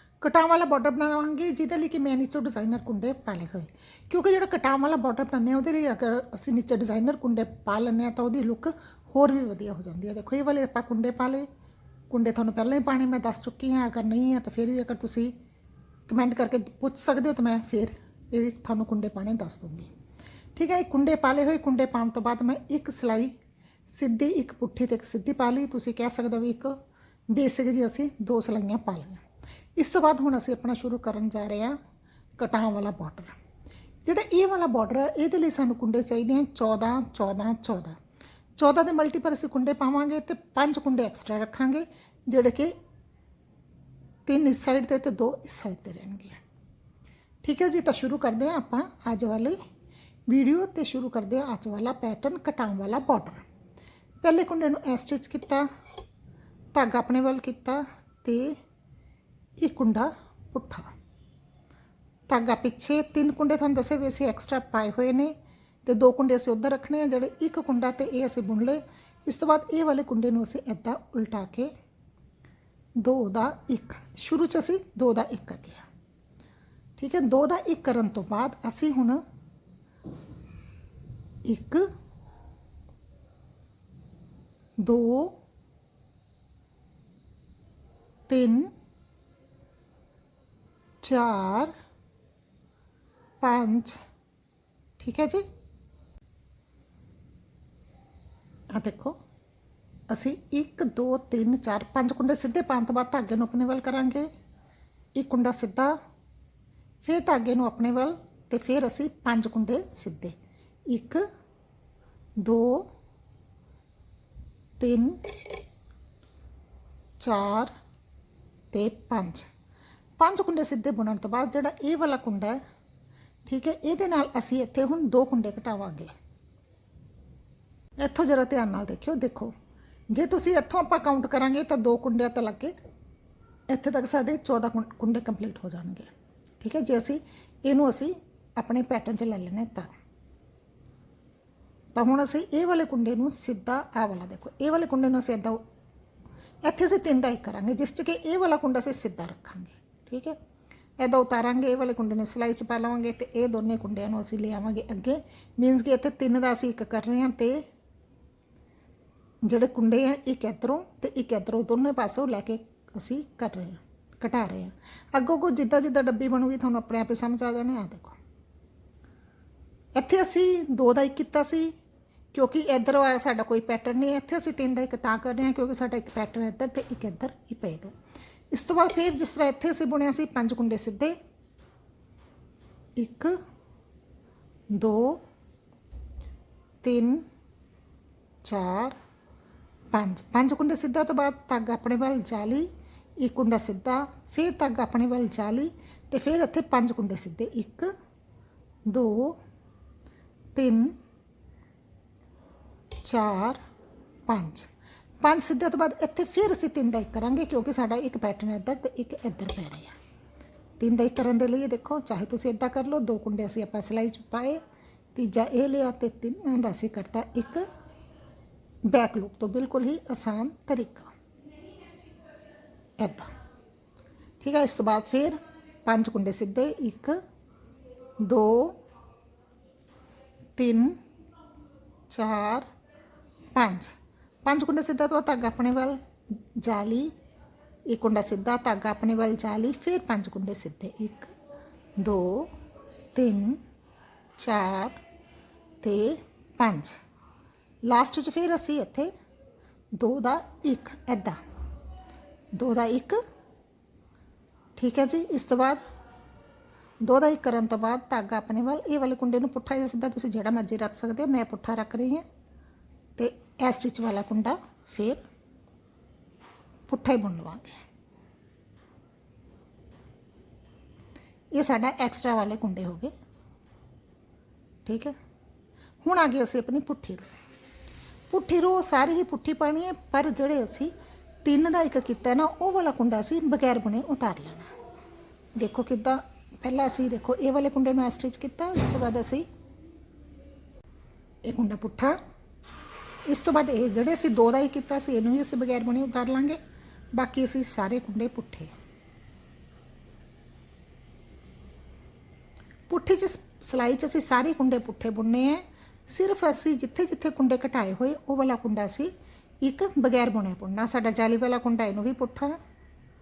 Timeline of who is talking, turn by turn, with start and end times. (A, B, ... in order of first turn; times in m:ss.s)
0:00.2-0:11.5 A
0:12.1-0:15.3 A
0:16.1-0:19.9 A
0:20.6-0:23.3 A
0:23.9-0:26.7 A
0:27.3-0:29.2 A
0:29.8-0:31.7 A
0:32.4-0:33.3 A
0:34.0-0:38.0 A
0:38.6-0:42.7 A
0:44.3-0:46.4 A
0:47.4-0:49.6 A
0:50.3-0:53.4 A
0:54.2-0:55.6 A
0:56.7-0:58.6 A
0:59.6-1:00.8 A
1:02.3-1:05.3 A
1:05.8-1:11.7 A
1:13.0-1:15.8 A
1:17.0-1:19.2 A
1:21.4-1:21.8 A
1:24.8-1:25.4 A
1:28.3-1:28.7 A
1:31.0-1:31.7 A
1:33.4-1:34.0 A
1:35.0-1:35.4 A
1:38.7-1:39.1 A
1:40.1-1:44.3 A
1:45.2-1:45.9 A
1:47.0-1:50.4 A
1:50.9-1:51.2 A
1:52.4-1:52.8 A
1:54.8-1:55.2 A
1:57.2-1:57.7 A
1:58.7-1:59.4 A
2:00.2-2:02.6 A
2:03.4-2:06.1 A
2:08.0-2:09.5 A
2:10.1-2:12.7 A
2:13.7-2:16.1 A
2:16.6-2:19.9 A
2:21.9-2:25.6 A
2:26.6-2:30.4 A
2:31.0-2:37.6 A
2:39.4-2:48.2 A
2:49.9-2:51.7 A
2:52.3-2:57.9 A
2:58.5-3:01.1 A
3:03.0-3:03.3 A
3:04.7-3:05.2 A
3:06.8-3:07.2 A
3:08.4-3:09.0 A
3:09.9-3:12.7 A
3:13.2-3:17.9 A
3:18.9-3:19.4 A
3:20.5-3:20.9 A
3:23.0-3:23.6 A
3:24.3-3:24.7 A
3:25.2-3:29.9 A
3:30.8-3:34.6 A
3:35.1-3:37.6 A
3:38.9-3:41.1 A
3:43.0-3:43.3 A
3:44.4-3:47.2 A
3:48.2-3:48.7 A
3:50.6-3:51.0 A
3:52.1-3:52.7 A
3:53.5-3:53.9 A
3:54.4-3:56.0 A
3:56.6-3:57.1 A
3:57.9-4:01.3 A
4:02.0-4:02.5 A
4:03.1-4:03.6 A
4:04.4-4:05.0 A
4:05.8-4:06.9 A
4:07.8-4:09.1 A
4:10.0-4:11.4 A
4:12.5-4:13.2 A
4:14.8-4:15.8 A
4:17.0-4:22.2 A
4:23.2-4:25.2 A
4:26.9-4:27.8 A
4:31.5-4:33.1 A
4:34.8-4:35.1 A
4:36.0-4:37.3 A
4:38.3-4:40.9 A
4:41.4-4:44.7 A
4:45.6-4:49.4 A
4:51.5-4:52.2 A
4:53.3-4:56.6 A
4:57.1-4:58.7 A
5:02.9-5:09.1 A
5:09.6-5:12.5 A